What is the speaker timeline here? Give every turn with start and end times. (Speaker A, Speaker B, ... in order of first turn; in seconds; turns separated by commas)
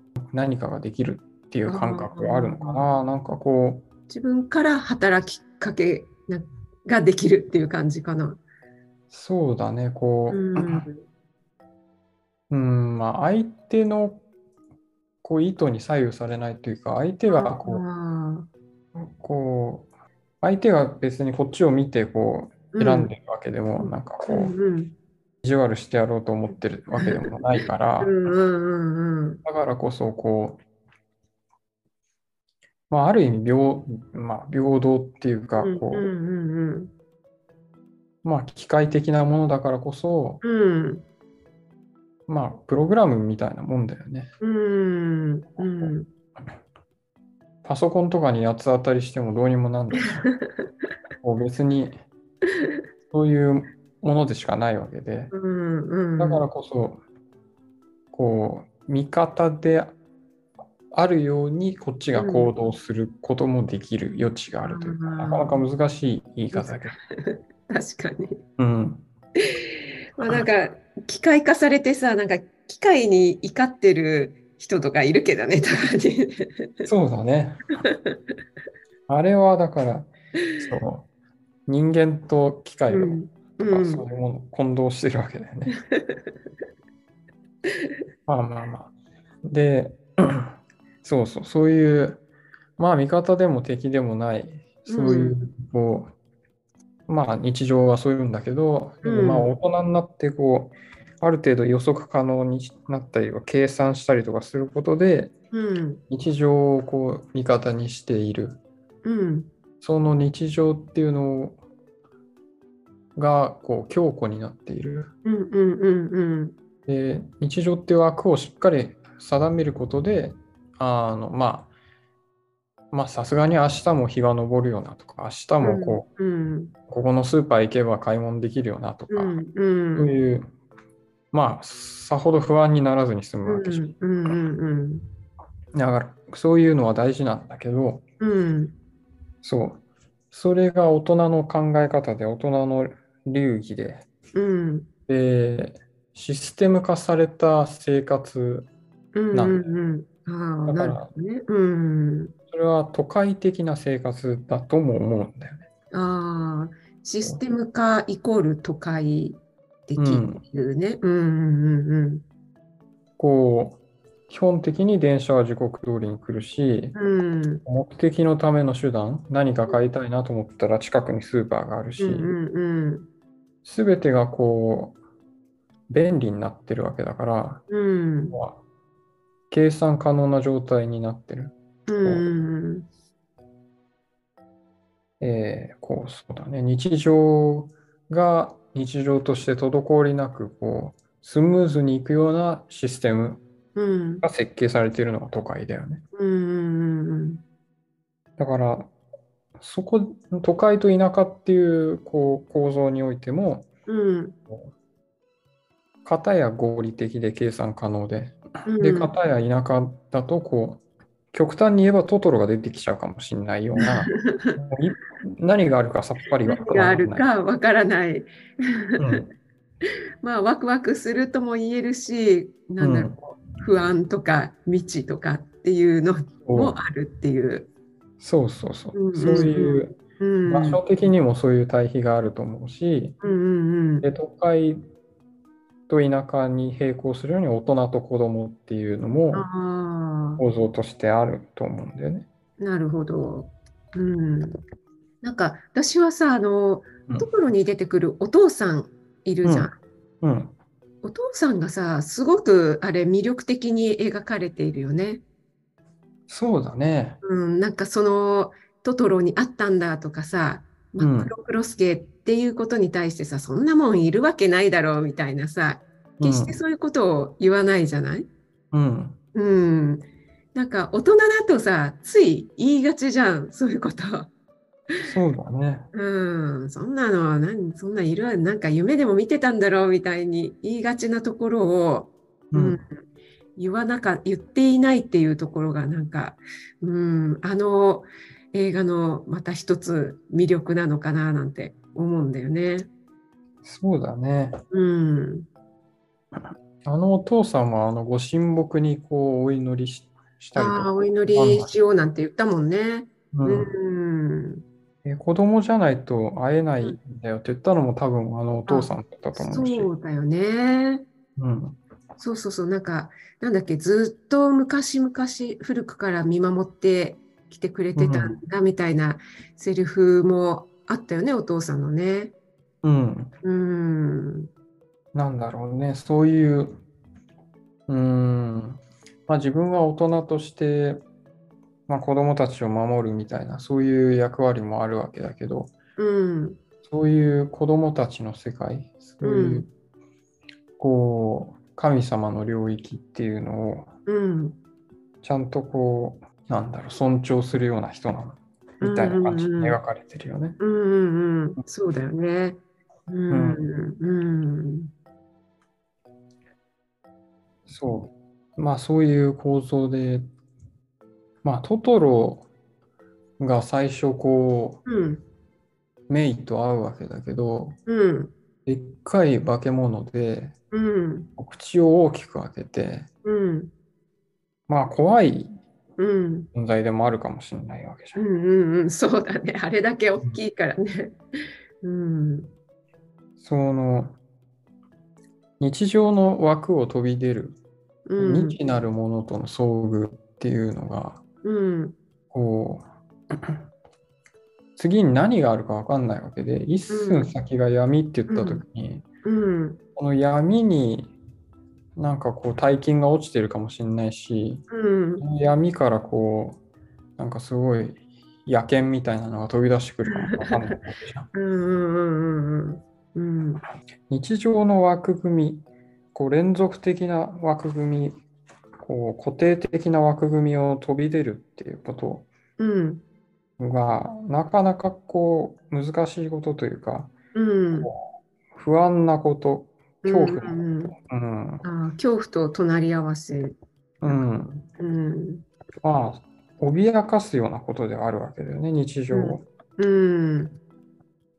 Speaker A: 0.3-3.9, Speaker B: 1.7-2.9, Speaker B: 4.1-8.4, Speaker A: 9.1-10.9, Speaker B: 10.3-11.0, Speaker A: 12.5-14.2, Speaker A: 15.2-17.8, Speaker B: 17.3-18.5, Speaker A: 18.9-19.9, Speaker A: 20.4-24.6, Speaker B: 22.7-23.1, Speaker B: 23.8-24.9, Speaker A: 25.4-28.2, Speaker B: 27.0-27.3, Speaker B: 28.0-29.4, Speaker A: 29.4-30.6, Speaker A: 32.9-36.1, Speaker B: 35.6-36.9, Speaker A: 38.2-40.4, Speaker B: 40.4-41.0, Speaker A: 42.3-44.3, Speaker B: 44.4-46.1, Speaker A: 45.6-45.9, Speaker A: 47.6-50.3, Speaker B: 50.1-50.7, Speaker A: 51.2-52.0, Speaker A: 53.1-55.3, Speaker B: 55.3-56.5, Speaker A: 56.2-57.0, Speaker A: 58.1-59.9, Speaker A: 60.9-67.0, Speaker B: 62.1-62.5, Speaker B: 64.6-65.6, Speaker B: 66.5-68.4, Speaker A: 68.6-69.1, Speaker B: 69.4-76.9, Speaker A: 76.9-77.7, Speaker B: 77.9-78.2, Speaker A: 79.1-81.1, Speaker A: 81.7-85.8, Speaker B: 82.9-84.0, Speaker B: 85.9-86.3, Speaker A: 88.3-88.9, Speaker A: 89.5-92.2, Speaker A: 92.8-96.1, Speaker B: 94.9-95.4, Speaker A: 97.1-105.3, Speaker B: 99.0-99.5, Speaker B: 105.5-106.0, Speaker A: 106.1-108.6, Speaker B: 109.0-109.5, Speaker A: 109.8-111.6, Speaker A: 113.2-115.1, Speaker B: 115.2-116.5, Speaker A: 116.9-121.7, Speaker A: 122.9-126.1, Speaker B: 125.6-126.7, Speaker A: 126.9-129.4, Speaker B: 129.1-130.1, Speaker A: 130.0-130.5, Speaker A: 131.3-133.9, Speaker B: 133.4-135.0, Speaker A: 135.7-138.0, Speaker B: 138.2-138.7, Speaker A: 139.4-144.1, Speaker B: 144.3-144.9, Speaker A: 145.1-148.7, Speaker B: 149.2-152.3, Speaker A: 149.3-149.7, Speaker A: 150.7-151.1, Speaker A: 152.5-155.7, Speaker B: 155.9-162.2, Speaker A: 160.0-160.4, Speaker A: 163.2-167.0, Speaker B: 166.9-167.6, Speaker A: 167.7-172.3, Speaker B: 172.0-173.1, Speaker A: 173.6-175.0, Speaker A: 175.9-177.6, Speaker B: 177.7-178.3, Speaker A: 178.3-178.6, Speaker A: 179.5-182.3, Speaker B: 181.9-182.8, Speaker A: 185.2-193.4, Speaker B: 193.8-194.2, Speaker A: 194.2-196.0, Speaker B: 196.2-197.4, Speaker A: 198.4-198.9, Speaker A: 199.6-203.7, Speaker B: 203.9-204.4, Speaker A: 206.1-217.3, Speaker B: 208.7-209.1, Speaker B: 213.8-214.5, Speaker B: 216.5-218.3, Speaker B: 218.9-219.2, Speaker A: 219.0-219.3, Speaker B: 220.2-227.7, Speaker A: 222.8-223.2, Speaker A: 226.5-226.8, Speaker A: 228.2-229.9, Speaker B: 228.9-230.8, Speaker A: 230.5-233.2, Speaker B: 233.2-234.1, Speaker A: 234.0-234.8, Speaker A: 235.9-239.5, Speaker B: 239.3-240.4, Speaker A: 240.4-242.3, Speaker B: 242.6-244.6, Speaker B: 245.2-249.8, Speaker A: 249.4-250.6, Speaker B: 251.0-255.2, Speaker A: 256.3-257.2, Speaker B: 257.2-268.3, Speaker A: 261.0-261.3, Speaker A: 266.2-266.6, Speaker A: 268.7-269.2, Speaker B: 269.4-274.3, Speaker A: 275.0-275.9, Speaker B: 275.9-282.9, Speaker A: 282.5-282.8, Speaker B: 283.6-292.9, Speaker A: 293.6-294.6, Speaker B: 294.7-295.5, Speaker A: 296.9-301.7, Speaker B: 300.6-304.6, Speaker A: 303.3-303.7, Speaker A: 305.0-309.9, Speaker B: 308.7-311.1, Speaker A: 311.4-311.8, Speaker B: 312.2-322.3, Speaker A: 318.0-318.4, Speaker A: 322.8-323.3, Speaker B: 323.4-324.5, Speaker A: 325.1-326.8, Speaker A: 327.9-331.0, Speaker A: 331.9-335.7, Speaker B: 336.0-336.6, Speaker A: 336.8-339.7, Speaker B: 339.2-339.7, Speaker A: 340.8-343.9, Speaker B: 344.1-344.6, Speaker A: 345.2-350.6, Speaker B: 348.8-349.8, Speaker B: 350.6-354.9, Speaker A: 353.3-353.7, Speaker A: 357.7-360.3, Speaker A: 361.4-362.5, Speaker A: 363.4-364.8, Speaker B: 364.9-365.2, Speaker A: 366.1-367.8, Speaker B: 367.9-368.3, Speaker A: 368.6-370.6, Speaker B: 370.7-371.3, Speaker A: 371.4-373.1, Speaker B: 373.2-373.7, Speaker A: 374.7-375.6, Speaker B: 376.0-376.5, Speaker A: 376.5-378.2, Speaker B: 378.2-381.2, Speaker B: 381.8-382.5, Speaker A: 383.4-384.2, Speaker A: 385.6-387.6, Speaker B: 388.1-388.6, Speaker A: 388.2-391.2, Speaker B: 391.4-392.0, Speaker A: 392.3-393.6, Speaker A: 394.8-399.1, Speaker B: 396.9-397.4, Speaker B: 398.3-398.6, Speaker B: 399.2-399.8, Speaker A: 400.0-401.1, Speaker A: 402.0-404.7, Speaker B: 404.7-405.2, Speaker A: 405.2-406.6, Speaker A: 407.2-411.3, Speaker B: 410.1-410.8, Speaker B: 411.3-413.6, Speaker A: 414.1-418.2, Speaker A: 418.8-422.3, Speaker B: 422.6-423.0, Speaker A: 423.6-427.1, Speaker B: 427.4-427.9, Speaker A: 427.8-431.7, Speaker B: 430.0-430.9, Speaker B: 431.6-433.6, Speaker A: 434.0-434.7, Speaker B: 434.8-435.4, Speaker A: 435.8-439.5, Speaker B: 439.1-440.6